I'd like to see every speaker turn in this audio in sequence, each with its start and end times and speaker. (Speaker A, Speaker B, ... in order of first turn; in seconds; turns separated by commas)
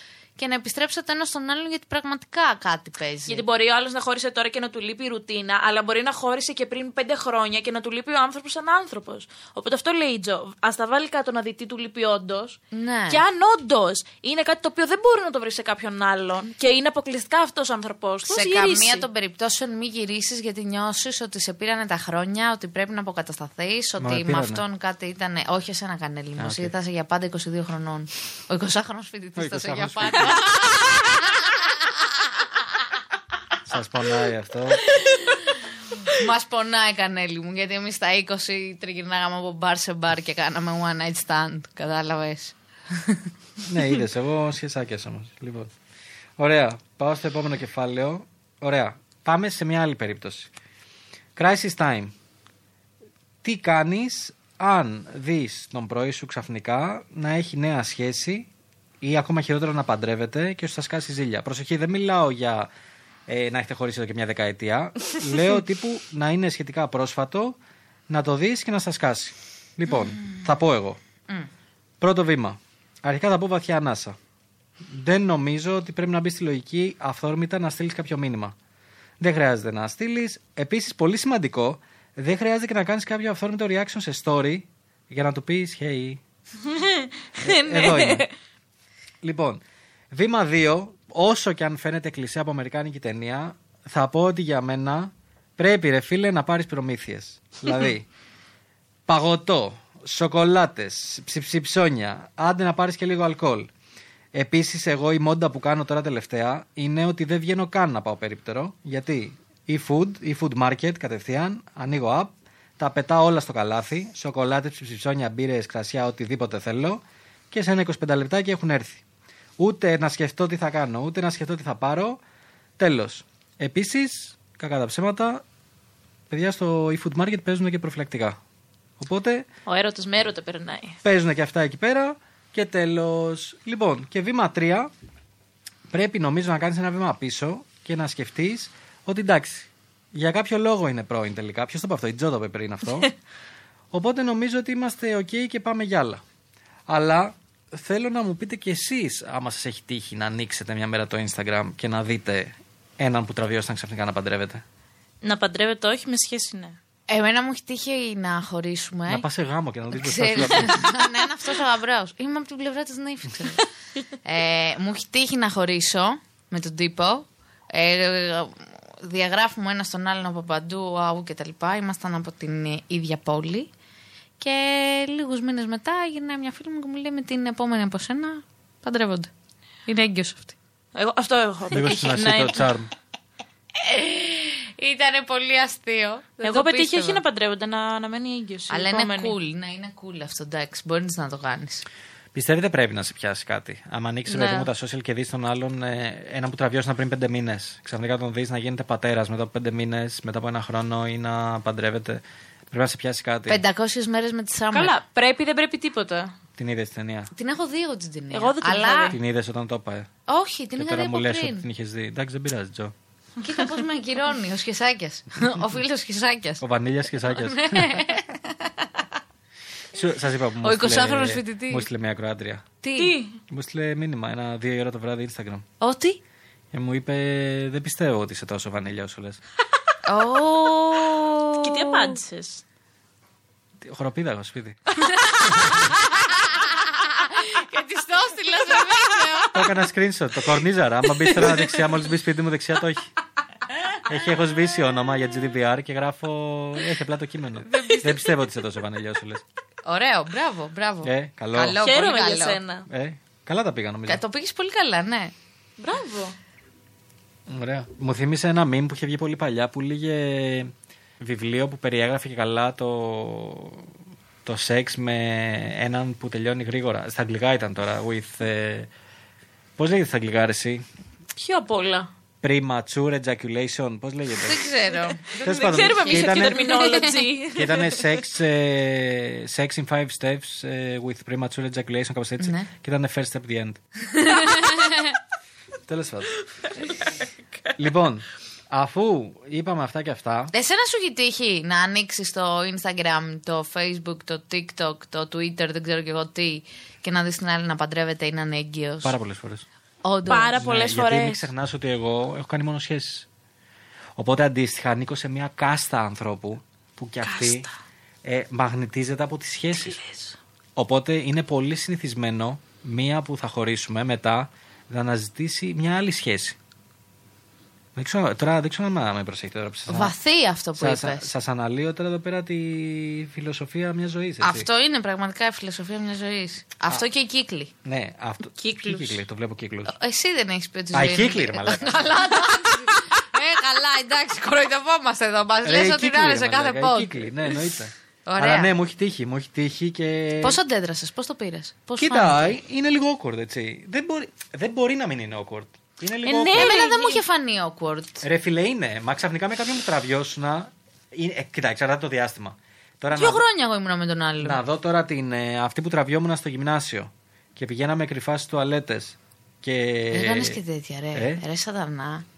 Speaker A: 0.4-3.4, Speaker B: 3.3-19.1, Speaker A: 12.7-13.2, Speaker A: 18.3-32.5, Speaker C: 24.0-24.6, Speaker C: 26.4-26.7, Speaker C: 29.4-30.4, Speaker C: 33.6-34.9, Speaker A: 36.0-43.3, Speaker C: 43.7-45.7, Speaker C: 46.4-50.5, Speaker C: 51.4-52.1, Speaker C: 53.4-58.5, Speaker C: 59.0-62.7, Speaker C: 63.3-67.6, Speaker C: 68.1-71.0, Speaker C: 72.0-74.2, Speaker C: 74.8-78.5, Speaker C: 79.2-86.2, Speaker B: 86.7-88.3, Speaker C: 87.4-88.2, Speaker C: 89.2-98.0, Speaker C: 99.1-103.7, Speaker C: 104.3-119.0, Speaker C: 119.6-122.2, Speaker C: 122.8-125.4, Speaker C: 126.3-128.4, Speaker C: 129.0-129.5, Speaker B: 129.7-131.0, Speaker C: 131.0-134.9, Speaker C: 135.9-143.1, Speaker C: 143.9-146.2, Speaker C: 146.9-154.6, Speaker B: 155.2-156.8, Speaker A: 157.1-159.2, Speaker C: 159.1-160.9, Speaker A: 159.9-163.7, Speaker A: 164.2-173.7, Speaker A: 174.4-179.3, Speaker A: 179.8-180.6, Speaker B: 180.9-182.7, Speaker C: 181.7-182.9, Speaker A: 183.8-187.2, Speaker B: 186.4-189.3, Speaker A: 188.7-191.8, Speaker C: 192.3-203.6, Speaker B: 194.3-194.7, Speaker A: 203.5-204.9, Speaker B: 204.7-206.3, Speaker C: 206.6-207.3, Speaker A: 207.3-209.2, Speaker B: 208.3-209.2, Speaker C: 209.1-210.1, Speaker A: 210.3-211.6, Speaker C: 210.8-212.9, Speaker A: 213.4-216.6, Speaker C: 216.6-218.0, Speaker A: 217.2-218.9, Speaker C: 219.9-222.7, Speaker A: 220.6-221.8, Speaker A: 222.8-223.2, Speaker B: 222.9-223.3, Speaker C: 223.5-225.7, Speaker A: 225.8-226.2, Speaker C: 226.7-229.4, Speaker A: 230.0-232.2, Speaker B: 231.6-232.6, Speaker C: 233.8-234.8, Speaker A: 235.0-239.7, Speaker C: 239.5-243.1, Speaker C: 244.0-249.4, Speaker B: 247.7-248.2, Speaker A: 249.8-252.6, Speaker C: 251.0-251.8, Speaker B: 251.8-252.8, Speaker C: 252.9-254.2, Speaker A: 254.1-255.3, Speaker B: 255.8-256.3, Speaker C: 257.5-263.9, Speaker C: 264.4-268.9, Speaker C: 269.8-270.8, Speaker B: 271.4-272.1, Speaker C: 272.4-274.7, Speaker A: 274.4-277.2, Speaker B: 275.2-278.2, Speaker C: 275.4-276.7, Speaker C: 277.5-283.8, Speaker A: 282.4-282.7, Speaker A: 284.1-285.1, Speaker C: 285.9-286.4, Speaker B: 286.6-287.7, Speaker C: 287.8-290.5, Speaker A: 290.5-299.1, Speaker C: 299.0-299.6, Speaker A: 300.0-300.6, Speaker B: 300.3-301.5, Speaker C: 300.5-303.3, Speaker C: 304.2-307.7, Speaker B: 307.2-307.7, Speaker C: 308.2-310.0, Speaker B: 309.7-310.4, Speaker C: 310.8-316.6, Speaker C: 317.9-320.1, Speaker A: 319.9-321.3, Speaker C: 320.8-324.7, Speaker A: 324.4-327.7, Speaker C: 327.8-329.9, Speaker B: 328.6-329.2, Speaker A: 329.9-337.6, Speaker C: 330.9-332.2, Speaker C: 335.6-340.6, Speaker A: 338.2-338.7, Speaker A: 340.4-342.6, Speaker C: 342.0-346.7, Speaker B: 346.2-347.2, Speaker A: 346.3-348.2, Speaker C: 348.2-353.4, Speaker A: 353.1-354.6, Speaker C: 354.4-360.6, Speaker A: 360.1-362.2, Speaker C: 361.1-361.4